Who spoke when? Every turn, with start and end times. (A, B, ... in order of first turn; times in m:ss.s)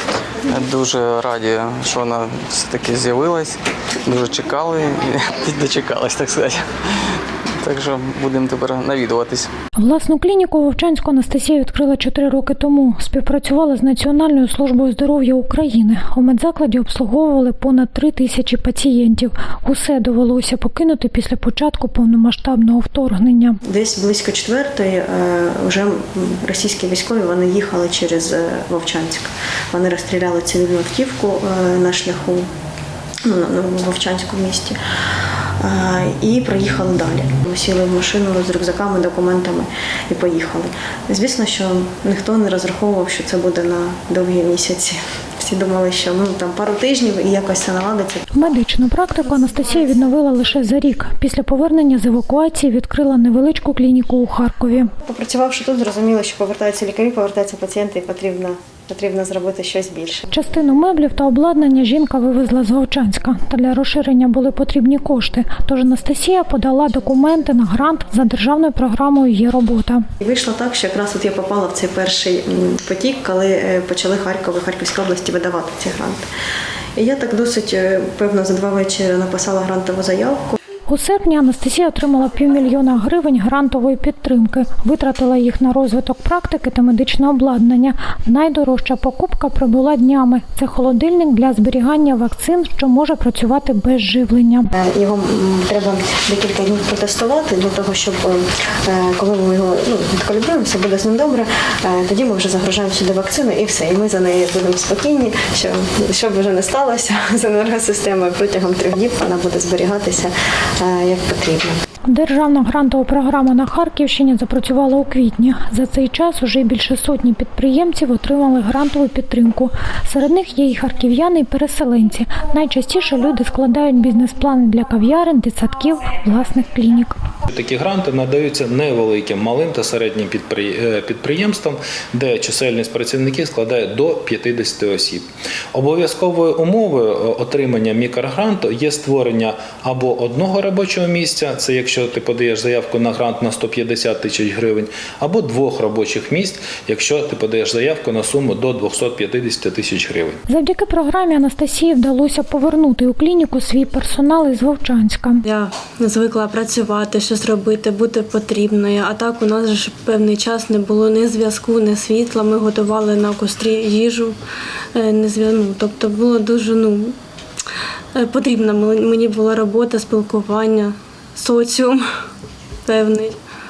0:00.5-0:09.5 A
0:09.8-0:23.6 B
0:23.6-0:32.5 C
0:33.2-0:34.8 C
0:35.6-0:48.3 C
0:48.4-0:54.9 B
0:55.0-1:00.3 C
1:00.3-1:10.0 B
1:10.2-1:16.2 C
1:17.0-1:20.5 C
1:20.9-1:34.7 B
1:34.7-1:51.8 C
1:52.1-2:07.2 B
2:07.5-2:30.4 D
2:30.5-2:35.4 B
2:35.5-2:44.4 E
2:44.9-2:47.2 E
2:48.2-2:52.0 E
2:52.9-2:53.4 E